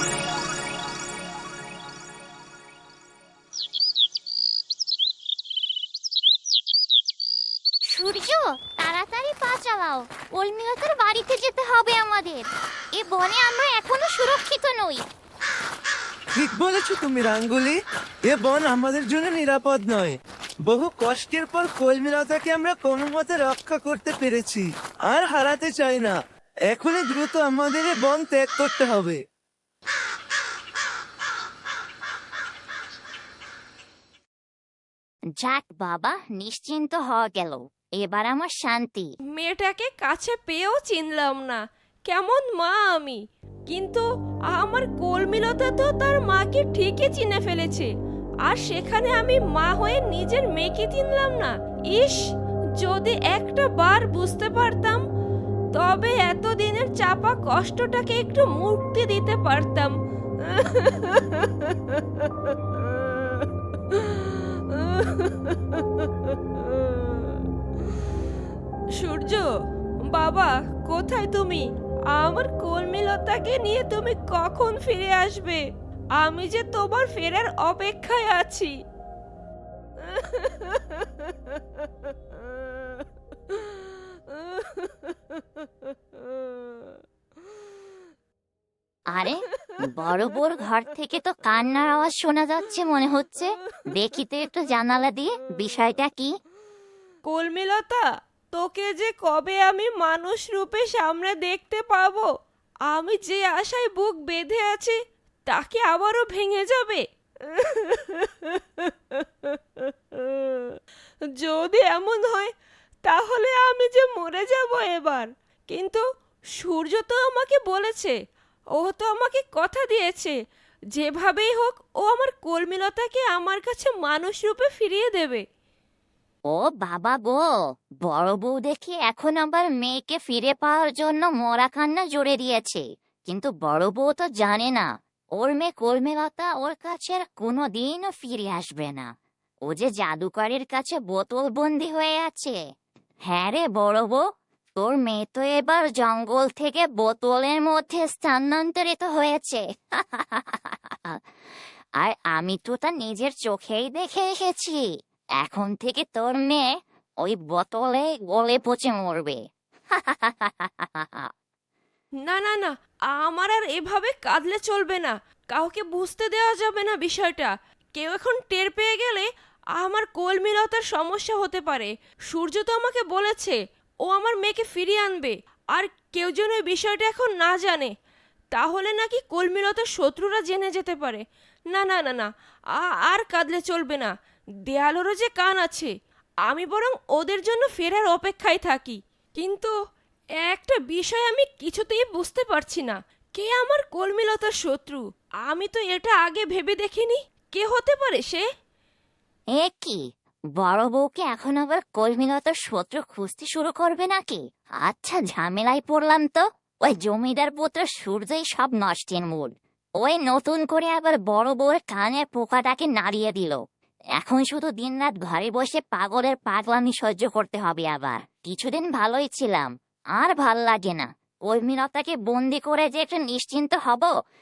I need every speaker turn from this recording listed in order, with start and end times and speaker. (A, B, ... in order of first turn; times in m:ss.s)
0:07.9-0:15.0 A
0:16.4-0:17.8 B
0:18.3-0:20.2 B
0:20.7-0:26.2 B
0:26.7-0:29.2 B
0:35.4-0:39.1 A
0:39.4-0:47.9 C
0:48.5-0:52.2 C
0:52.8-0:55.0 C
0:55.7-1:02.0 C
1:03.2-1:06.0 C
1:06.6-1:07.4 C
1:09.0-1:09.5 C
1:10.1-1:15.6 C
1:16.2-1:18.8 C
1:20.1-1:20.9 C
1:24.4-1:24.8 C
1:29.1-1:36.4 A
1:37.2-1:42.3 C
1:42.9-1:45.0 C
1:45.5-1:50.8 C
1:51.4-1:52.5 C
1:53.1-1:56.0 C
1:56.6-1:58.2 C
1:58.8-2:00.4 C
2:00.9-2:05.4 C
2:06.5-2:07.4 A
2:08.0-2:19.1 A
2:19.7-2:22.6 A
2:23.3-2:24.3 A
2:24.8-2:31.2 A
2:32.0-2:34.8 A
2:35.4-2:36.7 A
2:37.2-2:39.4 A
2:39.9-2:41.3 A
2:42.2-2:57.9 C
2:58.5-3:04.1 C
3:04.7-3:05.9 C
3:06.5-3:09.8 C
3:10.4-3:18.5 C
3:19.6-3:20.0 A
3:20.6-3:33.6 A
3:34.2-3:44.1 A